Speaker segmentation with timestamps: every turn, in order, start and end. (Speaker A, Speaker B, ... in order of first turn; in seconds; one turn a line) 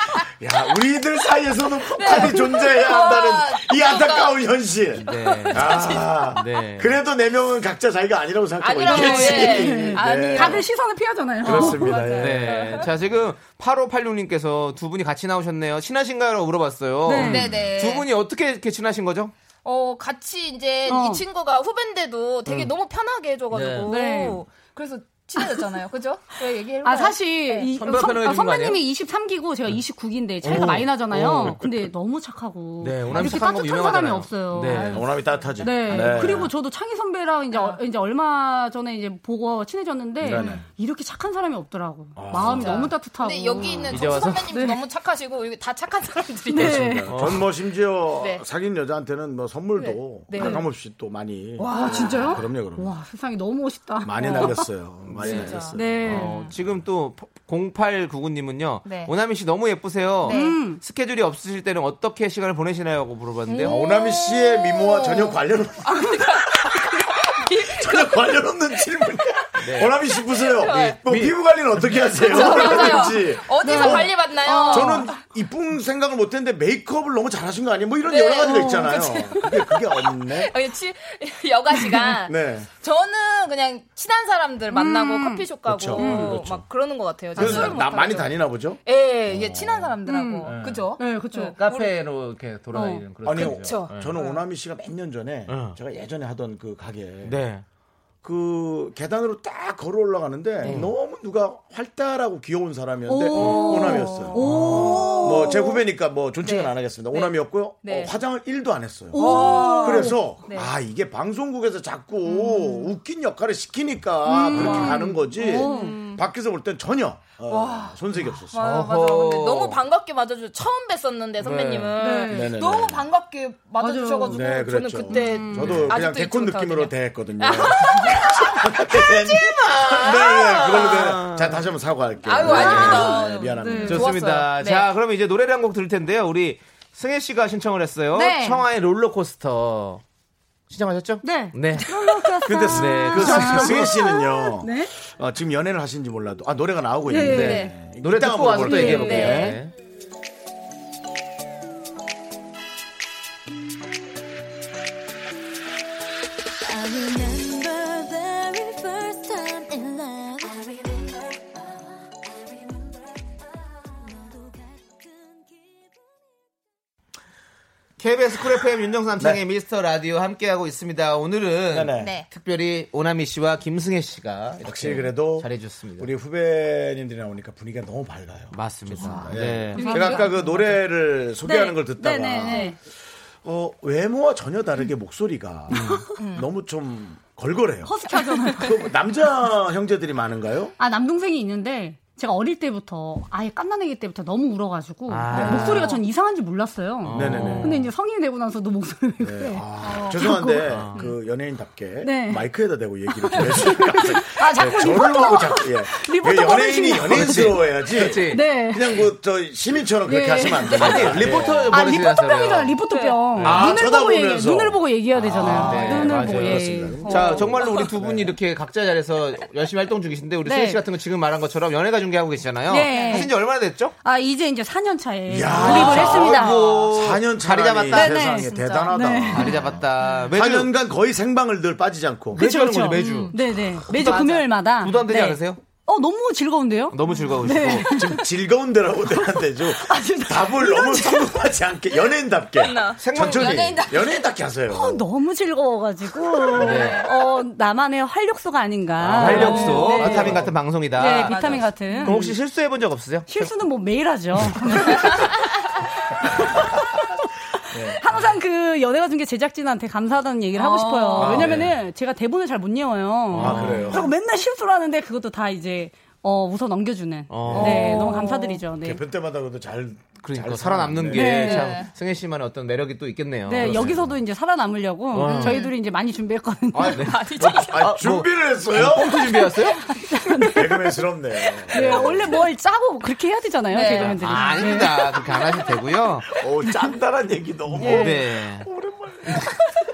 Speaker A: 0.2-10.7
Speaker B: 1.9-4.4
Speaker C: 5.0-7.0
Speaker B: 5.1-6.3
Speaker B: 8.6-10.7
Speaker D: 8.8-12.0
Speaker A: 11.4-12.6
Speaker B: 11.4-12.9
Speaker C: 12.2-19.3
Speaker D: 17.1-17.6
Speaker B: 17.2-18.1
Speaker B: 19.6-27.7
Speaker D: 20.9-21.2
Speaker C: 23.5-23.9
Speaker D: 23.9-24.4
Speaker D: 26.8-44.8
Speaker C: 27.7-28.8
Speaker C: 30.4-30.9
Speaker A: 30.5-31.9
Speaker C: 32.8-35.0
Speaker A: 34.9-36.5
Speaker B: 35.9-36.4
Speaker B: 37.5-37.8
Speaker A: 40.2-40.6
Speaker B: 40.3-40.6
Speaker A: 42.2-42.9
Speaker B: 42.3-46.9
Speaker C: 43.9-44.5
Speaker D: 46.5-47.2
Speaker A: 46.5-52.9
Speaker C: 47.1-47.5
Speaker B: 48.2-48.4
Speaker B: 49.8-50.7
Speaker D: 50.3-50.6
Speaker D: 51.6-54.7
Speaker B: 51.8-52.2
Speaker A: 54.0-56.1
Speaker B: 54.2-54.5
Speaker C: 55.1-63.8
Speaker B: 55.2-56.5
Speaker D: 55.7-56.4
Speaker B: 58.9-59.1
Speaker B: 60.2-60.6
Speaker D: 60.3-60.8
Speaker B: 63.5-68.3
Speaker A: 63.6-66.1
Speaker A: 67.6-80.5
Speaker C: 69.6-70.0
Speaker B: 70.2-71.0
Speaker C: 70.8-72.0
Speaker B: 72.1-75.2
Speaker D: 73.6-75.1
Speaker B: 78.0-91.9
Speaker D: 78.5-78.8
Speaker A: 82.2-82.7
Speaker D: 84.7-86.4
Speaker A: 85.7-86.7
Speaker A: 87.3-89.9
Speaker D: 87.4-87.7
Speaker D: 90.0-91.5
Speaker C: 90.4-90.9
Speaker C: 91.5-94.2
Speaker D: 92.7-93.0
Speaker A: 93.2-97.4
Speaker B: 93.3-94.4
Speaker C: 95.5-95.8
Speaker C: 97.2-97.6
Speaker A: 98.2-104.4
Speaker C: 100.6-100.9
Speaker D: 103.1-105.8
Speaker B: 103.4-105.7
Speaker C: 104.4-105.2
Speaker A: 105.2-118.7
Speaker B: 106.4-108.1
Speaker D: 109.1-110.3
Speaker B: 109.2-110.7
Speaker B: 112.2-112.9
Speaker D: 114.2-116.0
Speaker B: 114.4-116.2
Speaker B: 117.5-131.2
Speaker C: 118.6-119.8
Speaker C: 121.4-122.0
Speaker D: 122.0-122.6
Speaker A: 122.3-123.0
Speaker D: 123.8-125.8
Speaker A: 124.3-134.1
Speaker C: 129.6-131.7
Speaker B: 132.2-134.9
Speaker C: 132.5-133.1
Speaker D: 132.5-134.1
Speaker C: 133.8-140.0
Speaker D: 138.1-138.7
Speaker C: 140.7-141.9
Speaker D: 141.2-144.9
Speaker A: 142.4-149.6
Speaker C: 142.6-144.1
Speaker D: 147.1-147.7
Speaker C: 147.3-149.7
Speaker B: 147.3-147.7
Speaker D: 148.7-149.5
Speaker B: 148.7-149.6
Speaker E: 156.6-163.1
Speaker E: 163.6-166.5
Speaker C: 168.0-176.1
Speaker A: 171.7-172.2
Speaker B: 171.9-172.3
Speaker A: 174.6-182.8
Speaker C: 178.5-180.3
Speaker D: 179.0-180.8
Speaker B: 179.8-180.3
Speaker D: 181.4-182.8
Speaker B: 182.4-182.7
Speaker A: 183.4-187.9
Speaker D: 185.7-186.1
Speaker B: 186.2-186.5
Speaker D: 187.8-188.9
Speaker B: 188.1-188.7
Speaker A: 188.6-190.8
Speaker D: 190.8-200.8
Speaker C: 195.1-196.0
Speaker A: 195.3-195.8
Speaker B: 195.7-196.0
Speaker C: 197.0-197.9
Speaker A: 197.1-197.8
Speaker A: 199.2-211.8
Speaker B: 199.8-200.3
Speaker C: 200.7-201.0
Speaker D: 202.0-202.5
Speaker D: 203.1-209.1
Speaker C: 207.1-208.5
Speaker D: 210.1-217.1
Speaker C: 210.7-212.8
Speaker B: 212.8-213.3
Speaker C: 213.3-213.8
Speaker A: 213.4-218.4
Speaker C: 215.2-223.9
Speaker B: 216.9-217.9
Speaker D: 220.4-220.8
Speaker D: 222.7-223.3
Speaker B: 222.9-223.3
Speaker D: 224.0-226.8
Speaker A: 225.3-229.8
Speaker C: 225.5-228.2
Speaker D: 227.9-229.7
Speaker B: 228.2-229.5
Speaker C: 229.3-230.7
Speaker A: 230.3-232.4
Speaker C: 232.3-233.3
Speaker D: 232.3-238.3
Speaker B: 233.0-233.4
Speaker B: 233.9-234.5
Speaker C: 233.9-235.6
Speaker C: 236.9-238.0
Speaker B: 237.1-237.4
Speaker A: 237.8-245.1
Speaker D: 239.4-241.4
Speaker B: 242.6-244.3
Speaker C: 243.0-243.8
Speaker D: 244.7-252.3
Speaker B: 246.5-247.2
Speaker C: 246.6-247.0
Speaker C: 249.0-253.5
Speaker A: 249.2-250.5
Speaker B: 249.3-250.4
Speaker B: 251.0-252.2
Speaker D: 253.3-255.4
Speaker D: 256.4-256.9
Speaker A: 257.7-258.0
Speaker D: 257.7-269.0
Speaker B: 260.6-261.4
Speaker C: 261.1-261.7
Speaker A: 261.2-261.7
Speaker C: 263.3-264.0
Speaker A: 263.4-264.1
Speaker C: 267.3-268.3
Speaker A: 267.4-268.1
Speaker B: 267.8-268.4
Speaker A: 268.7-271.4
Speaker C: 270.2-274.1
Speaker D: 271.1-271.8
Speaker B: 271.3-271.9
Speaker D: 273.5-277.1
Speaker A: 273.6-274.2
Speaker C: 275.1-275.6
Speaker B: 275.3-275.7
Speaker C: 276.7-279.8
Speaker B: 276.9-277.9
Speaker A: 277.4-279.3
Speaker D: 280.1-281.1
Speaker A: 280.4-282.4
Speaker D: 281.7-285.3
Speaker C: 281.8-282.1
Speaker B: 283.7-284.8
Speaker C: 284.0-286.3
Speaker A: 286.4-289.5
Speaker D: 287.8-288.3
Speaker C: 287.8-288.7
Speaker C: 289.3-289.6